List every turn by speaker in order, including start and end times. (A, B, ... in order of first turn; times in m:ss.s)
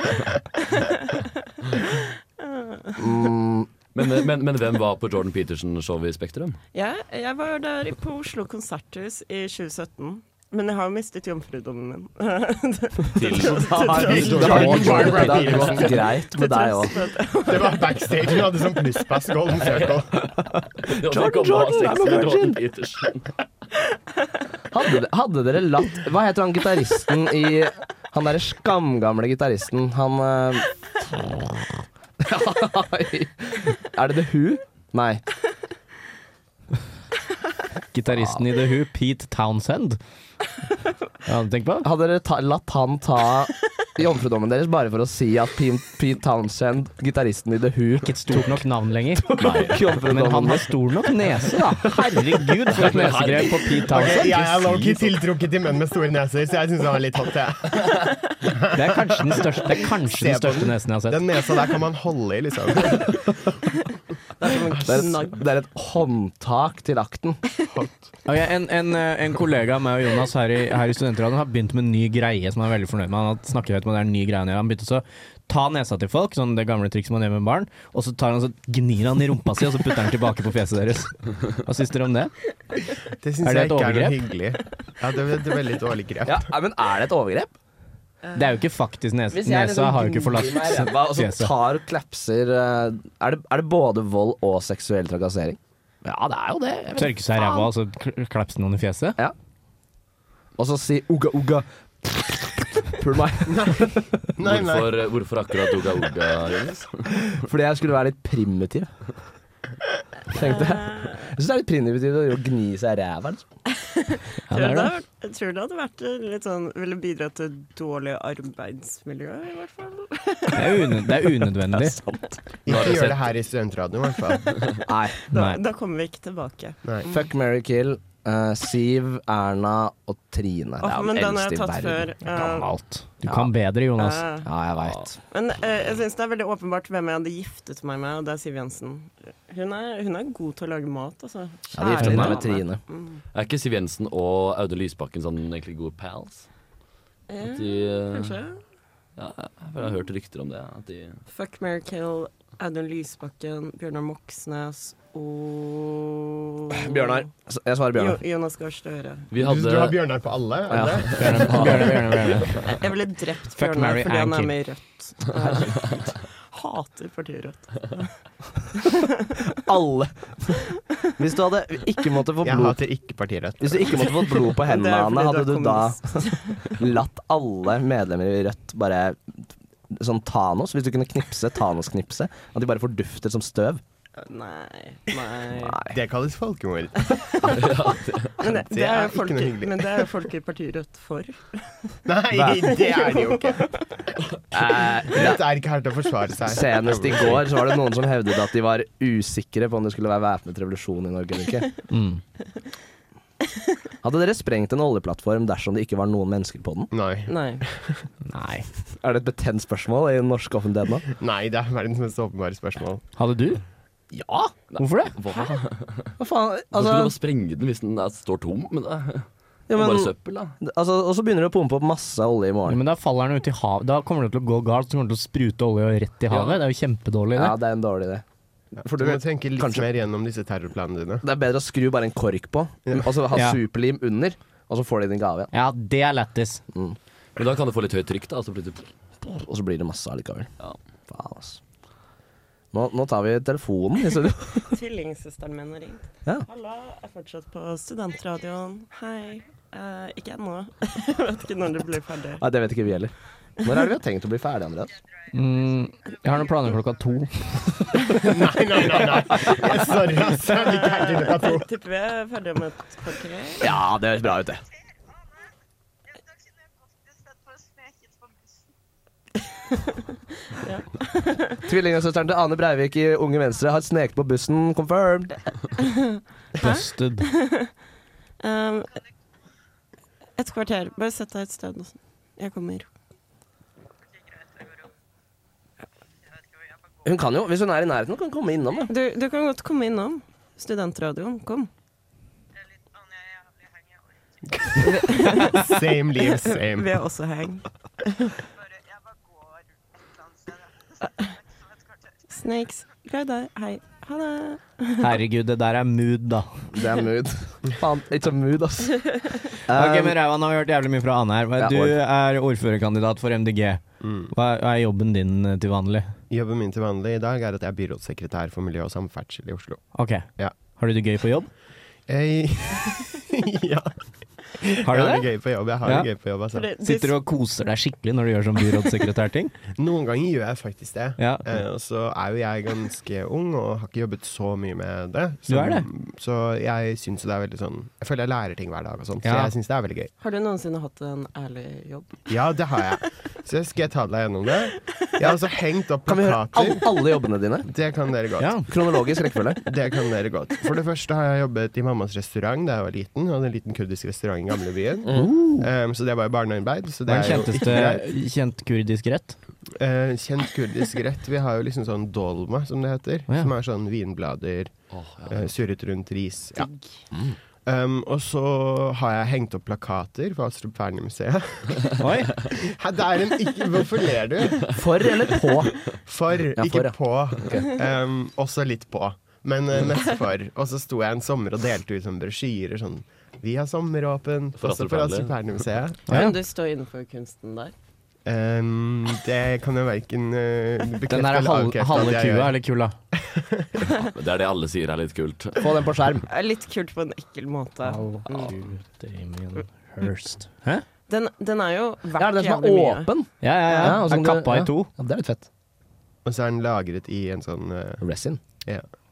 0:02.0-0:03.1 A
0:03.0-0:03.7 B
0:03.9-0:06.6 C
0:06.7-0:14.9 A
0:13.2-0:15.8 C
0:13.3-0:17.0 B
0:13.9-0:16.2 D
0:16.1-0:18.2 A
0:17.4-0:20.2 D
0:20.2-0:22.6 B
0:20.8-0:23.3 C
0:24.7-0:31.4 B
0:32.2-0:35.2 B
0:37.9-0:40.0 E
0:38.1-0:38.4 B
0:41.2-0:41.9 E
0:41.8-0:50.8 B
0:48.0-0:55.1 E
0:49.4-0:49.9 C
0:51.5-0:52.2 B
0:52.7-0:53.8 C
0:52.8-0:53.3 B
0:53.9-1:03.4 D
0:58.7-1:01.2 E
1:04.4-1:05.4 A
1:04.8-1:05.1 D
1:04.8-1:07.4 B
1:07.7-1:08.1 D
1:08.2-1:22.3 E
1:23.2-1:26.5 D
1:23.4-1:24.2 E
1:26.2-1:27.5 B
1:28.3-1:31.5 E
1:29.3-1:37.7 B
1:37.0-1:39.2 E
1:40.6-1:44.2 B
1:43.5-1:45.0 D
1:44.4-1:47.1 C
1:47.3-1:48.9 B
1:50.3-1:53.4 B
1:50.3-1:51.2 A
1:53.8-2:01.2 A
1:54.5-1:55.0 E
2:00.5-2:02.0 E
2:01.7-2:02.4 B
2:02.6-2:04.8 D
2:02.7-2:03.3 C
2:04.8-2:05.2 B
2:05.2-2:07.1 A
2:05.3-2:05.6 E
2:06.8-2:07.1 D
2:07.0-2:12.1 B
2:10.8-2:12.7 A
2:12.3-2:14.2 E
2:13.2-2:13.5 B
2:14.0-2:14.5 A
2:14.4-2:15.2 B
2:15.3-2:23.2 A
2:21.7-2:22.8 B
2:22.0-2:22.4 E
2:23.3-2:26.5 C
2:27.3-2:28.6 A
2:27.4-2:28.4 C
2:29.2-2:31.2 C
2:31.3-2:37.3 A
2:36.7-2:38.2 B
2:37.9-2:39.3 A
2:39.3-2:40.0 C
2:39.4-2:41.9 D
2:40.7-2:42.2 B
2:41.2-2:42.7 E
2:42.7-2:48.1 A
2:43.6-2:44.5 E
2:49.5-2:52.8 B
2:52.4-2:54.4 D
2:53.6-2:59.4 B
2:54.6-2:56.8 A
2:59.9-3:03.8 B
3:04.2-3:05.8 A
3:05.5-3:06.0 B
3:05.8-3:07.2 D
3:07.1-3:07.7 A
3:07.4-3:08.3 C
3:08.4-3:11.9 A
3:08.4-3:10.1 D
3:12.0-3:13.6 D
3:12.3-3:12.8 B
3:12.7-3:13.8 A
3:14.5-3:15.4 B
3:14.6-3:17.6 D
3:16.4-3:21.7 B
3:21.9-3:22.2 E
3:24.0-3:26.9 B
3:26.9-3:28.0 D
3:27.3-3:27.6 A
3:28.2-3:28.7 E
3:29.0-3:31.0 B
3:31.2-3:33.0 D
3:33.2-3:33.6 E
3:34.1-3:34.5 B
3:34.7-3:36.1 C
3:34.8-3:35.2 E
3:36.2-3:37.1 B
3:36.7-3:40.5 C
3:39.7-3:42.8 B
3:42.7-3:47.6 E
3:46.3-3:46.6 B
3:47.3-3:48.2 B
3:48.8-3:51.2 D
3:48.8-3:49.9 B
3:51.2-3:55.5 B
3:53.3-3:53.6 E
3:55.5-3:56.6 E
3:57.4-3:58.9 C
3:59.2-4:00.5 B
4:01.1-4:01.6 B
4:02.7-4:04.8 B
4:04.7-4:12.4 A
4:12.4-4:15.0 B
4:15.3-4:18.2 E
4:18.2-4:21.7 D
4:20.4-4:23.7 A
4:23.6-4:24.6 B
4:29.7-4:31.6 A
4:31.6-4:35.4 B
4:35.8-4:37.7 A
4:36.6-4:37.3 E
4:38.4-4:39.0 A
4:40.4-4:42.9 A
4:47.0-4:48.9 B
4:48.9-4:51.7 A
4:54.5-4:57.0 D
4:54.7-4:58.3 A
5:01.0-5:01.4 A
5:02.3-5:05.1 A
5:05.0-5:06.6 E
5:06.7-5:10.2 B
5:09.7-5:16.1 E
5:11.6-5:12.0 B
5:14.0-5:14.3 D
5:16.3-5:19.8 D
5:19.9-5:21.5 E
5:22.1-5:24.0 D
5:24.5-5:26.7 D
5:24.8-5:25.3 E
5:25.8-5:26.1 E
5:26.5-5:27.2 A
5:26.8-5:29.6 E
5:29.7-5:40.1 D
5:31.2-5:31.6 E
5:35.5-5:35.9 E
5:39.2-5:39.5 E
5:40.2-5:42.2 A
5:42.3-5:46.9 D
5:46.1-5:47.7 B
5:47.6-5:48.6 D
5:48.4-5:48.6 E
5:48.7-5:49.6 B
5:49.6-5:58.1 D
5:55.0-5:55.3 B
5:55.1-5:55.7 E
5:57.1-5:59.4 E
5:59.8-6:04.7 D
6:04.9-6:05.5 C
6:05.3-6:06.7 D
6:06.6-6:06.8 A
6:07.6-6:14.7 D
6:12.0-6:12.4 E
6:14.7-6:15.8 B
6:16.0-6:26.2 D
6:16.6-6:17.7 B
6:24.6-6:25.6 C
6:26.1-6:27.7 A
6:26.1-6:26.4 E
6:28.2-6:32.6 D
6:31.1-6:33.0 E
6:33.1-6:33.7 D
6:33.9-6:35.8 C
6:35.6-6:36.2 B
6:36.3-6:38.6 A
6:37.8-6:40.8 E
6:41.1-6:43.1 A
6:42.2-6:45.5 B
6:43.4-6:44.9 E
6:46.2-6:48.0 D
6:48.0-6:48.4 B